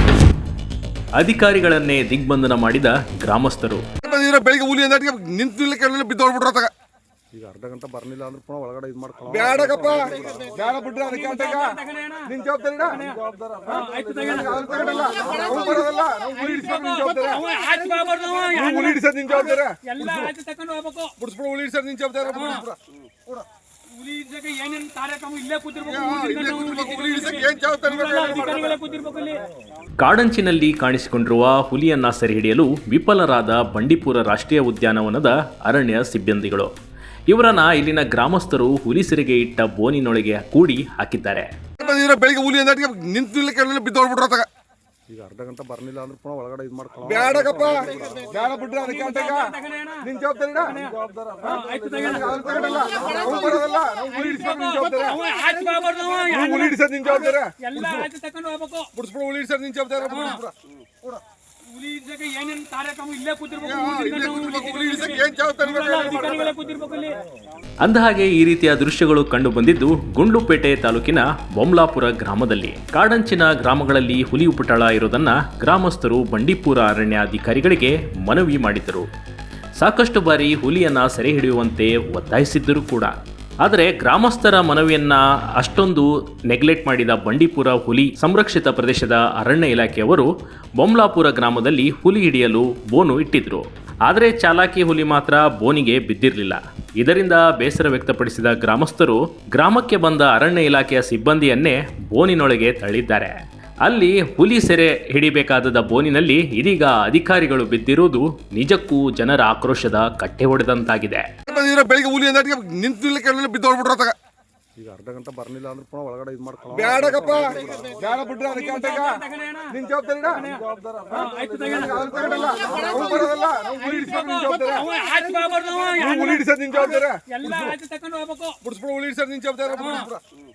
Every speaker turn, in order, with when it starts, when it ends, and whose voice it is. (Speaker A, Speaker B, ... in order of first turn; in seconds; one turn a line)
Speaker A: 1.2-3.8
Speaker B: 4.0-6.7
Speaker C: 7.3-10.7
Speaker B: 10.7-11.6
Speaker D: 11.1-12.3
Speaker B: 12.3-13.0
Speaker C: 13.3-13.9
Speaker D: 13.7-15.8
Speaker B: 14.7-17.4
Speaker D: 16.3-21.2
Speaker B: 18.5-19.7
Speaker B: 21.2-22.5
Speaker D: 24.0-29.4
Speaker B: 26.0-28.7
Speaker A: 30.0-36.7
Speaker A: 37.3-41.5
Speaker B: 41.8-44.5
Speaker C: 45.1-48.5
Speaker B: 48.4-49.3
Speaker D: 48.8-50.0
Speaker B: 50.1-50.8
Speaker C: 51.2-51.6
Speaker D: 51.4-53.5
Speaker B: 52.0-55.1
Speaker D: 54.1-56.7
Speaker B: 56.3-57.5
Speaker D: 57.6-58.9
Speaker B: 59.0-60.4
Speaker D: 61.7-67.2
Speaker B: 63.7-66.4
Speaker A: 67.8-79.1
Speaker A: 79.8-90.3
Speaker A: 90.8-111.2
Speaker B: 111.5-114.1
Speaker C: 114.8-118.2
Speaker B: 118.1-119.0
Speaker D: 118.5-119.7
Speaker B: 119.8-120.5
Speaker D: 120.3-128.6
Speaker C: 120.8-121.3
Speaker B: 122.6-124.8
Speaker B: 126.0-127.2
Speaker B: 128.6-130.1